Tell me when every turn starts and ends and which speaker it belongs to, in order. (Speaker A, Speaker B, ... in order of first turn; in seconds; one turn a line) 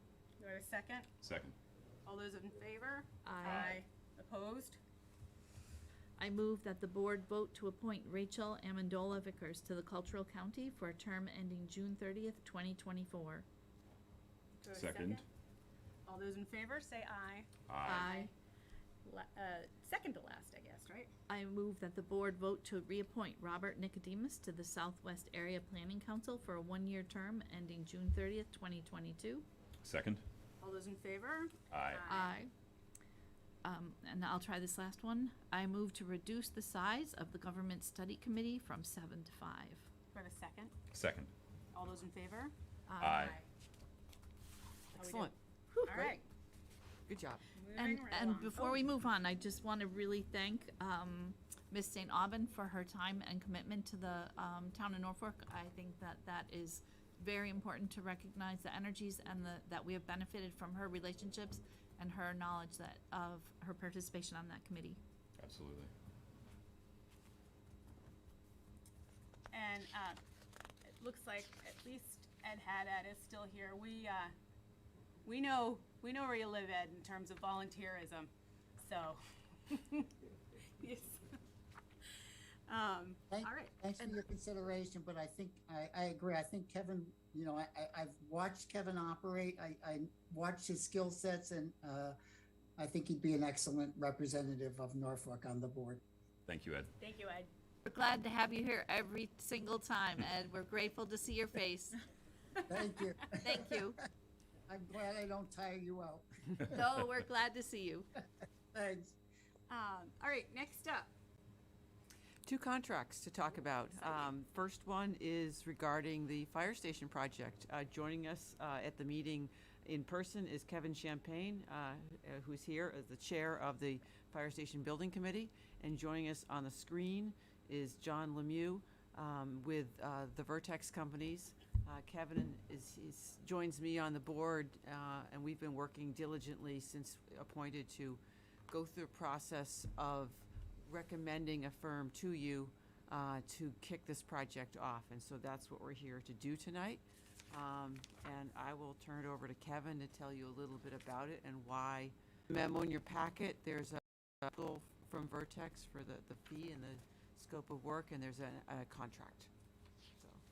Speaker A: 0.4-1.1
Speaker B: 1.2-1.6
Speaker A: 2.0-4.8
Speaker C: 3.2-3.8
Speaker C: 6.2-13.4
Speaker A: 14.6-15.2
Speaker B: 14.7-15.2
Speaker A: 16.1-18.3
Speaker B: 17.7-18.1
Speaker C: 17.8-18.3
Speaker A: 19.0-21.1
Speaker C: 21.3-29.4
Speaker B: 29.8-30.2
Speaker A: 30.6-32.4
Speaker B: 31.7-32.1
Speaker C: 32.1-32.5
Speaker C: 33.6-39.9
Speaker A: 40.1-40.7
Speaker B: 40.9-41.3
Speaker A: 41.7-42.5
Speaker C: 42.9-43.4
Speaker B: 43.0-43.4
Speaker D: 44.9-45.3
Speaker A: 44.9-45.3
Speaker C: 45.7-46.1
Speaker A: 45.8-46.2
Speaker D: 47.1-47.5
Speaker A: 47.5-48.8
Speaker C: 47.8-65.0
Speaker B: 65.4-65.9
Speaker A: 69.5-70.2
Speaker A: 71.0-74.3
Speaker A: 75.2-80.1
Speaker A: 80.8-81.3
Speaker A: 82.7-83.8
Speaker E: 83.3-92.2
Speaker E: 92.8-96.0
Speaker B: 96.5-96.9
Speaker A: 97.0-97.5
Speaker C: 97.9-102.0
Speaker E: 102.7-103.8
Speaker C: 103.4-104.0
Speaker E: 104.7-106.3
Speaker C: 106.7-108.1
Speaker E: 108.7-109.2
Speaker A: 109.7-111.1
Speaker D: 112.4-159.5